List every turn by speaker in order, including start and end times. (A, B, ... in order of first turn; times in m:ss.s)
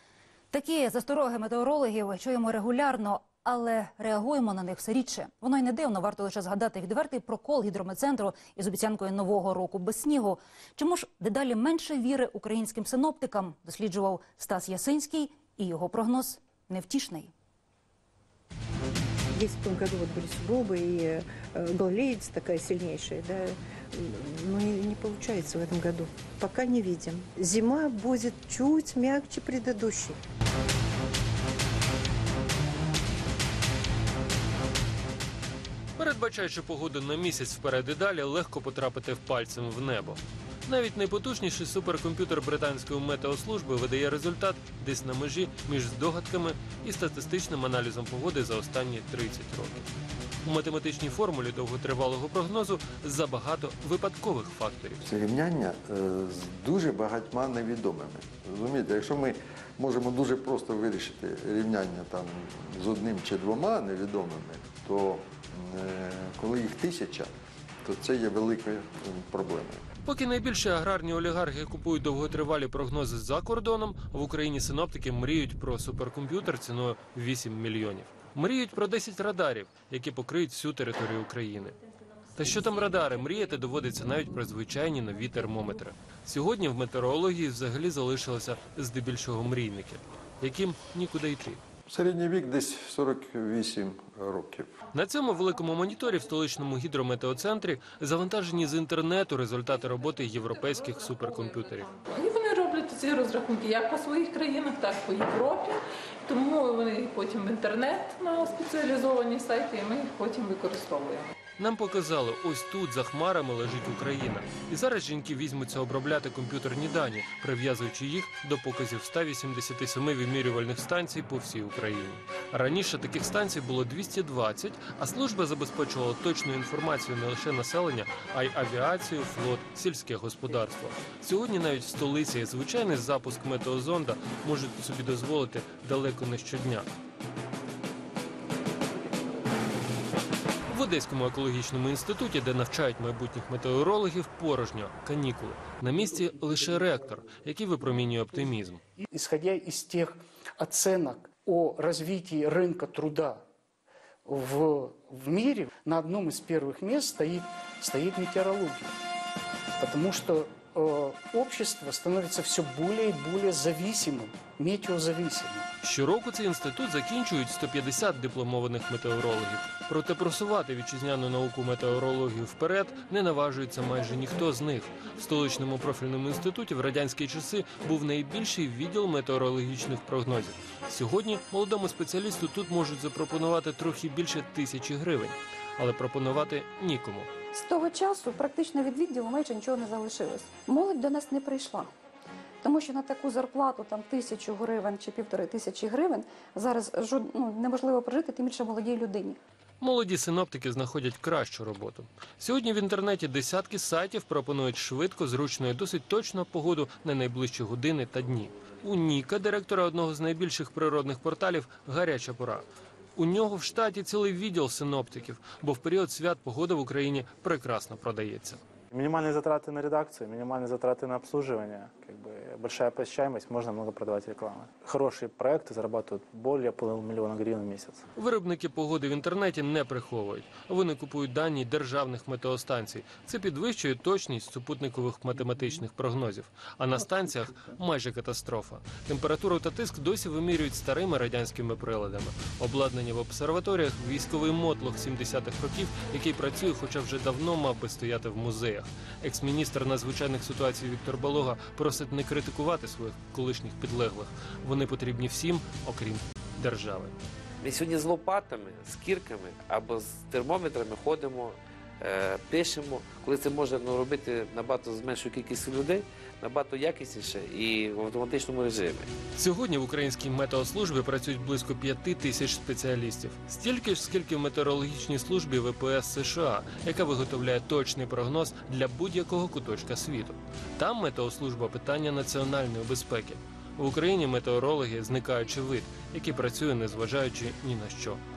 0:00.5-0:17.3 A
0:19.3-0:30.2 B
0:36.0-0:49.9 C
0:50.4-0:55.0 C
0:55.0-1:09.8 D
1:10.0-1:21.8 C
1:22.4-1:31.6 C
1:31.9-1:34.7 D
1:34.9-1:41.9 C
1:42.0-1:51.3 E
1:51.6-2:16.9 C
2:20.7-2:28.8 C
2:29.0-2:33.4 F
2:34.2-2:39.0 F
2:39.8-2:45.7 F
2:45.8-3:07.3 C
3:07.5-3:11.9 G
3:12.6-3:19.4 G
3:19.8-3:38.6 C
3:38.9-3:48.0 H
3:48.2-4:17.2 C
4:17.6-4:29.1 I
4:29.4-4:48.2 C